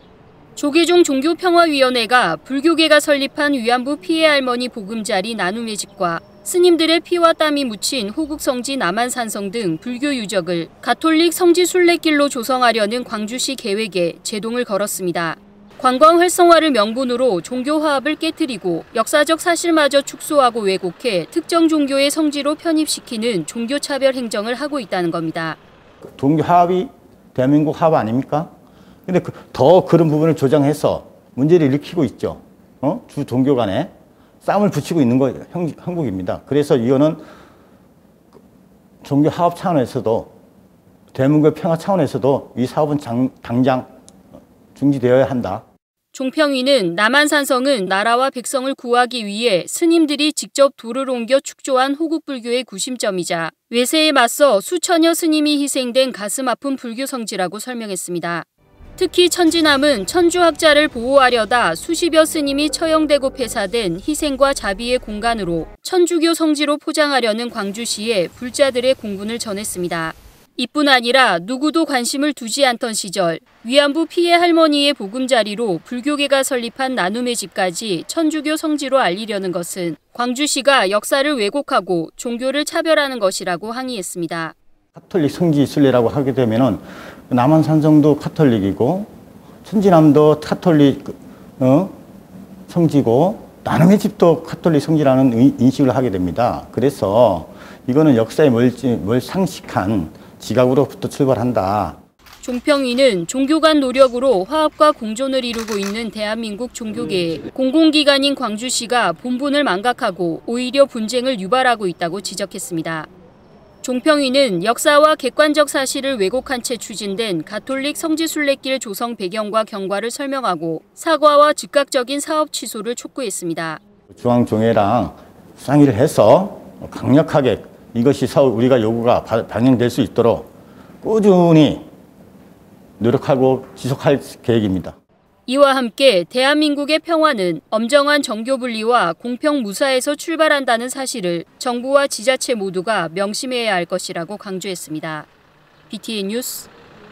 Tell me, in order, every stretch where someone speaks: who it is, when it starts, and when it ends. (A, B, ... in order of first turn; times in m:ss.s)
0:00.6-0:25.6 A
0:26.0-0:28.5 B
0:29.1-0:33.9 B
0:34.4-0:37.2 B
0:39.0-0:40.3 B
0:41.1-0:43.9 B
0:44.7-0:45.6 B
0:46.1-0:58.4 A
0:59.0-1:24.6 A
1:25.0-1:29.1 B
1:29.6-1:32.0 B
1:32.7-1:42.0 B
1:42.4-1:53.1 A
1:53.8-2:03.8 A
2:04.1-2:10.5 B
2:11.0-2:11.9 B
2:13.0-2:15.0 B
2:15.5-2:25.3 A
2:25.9-2:26.7 A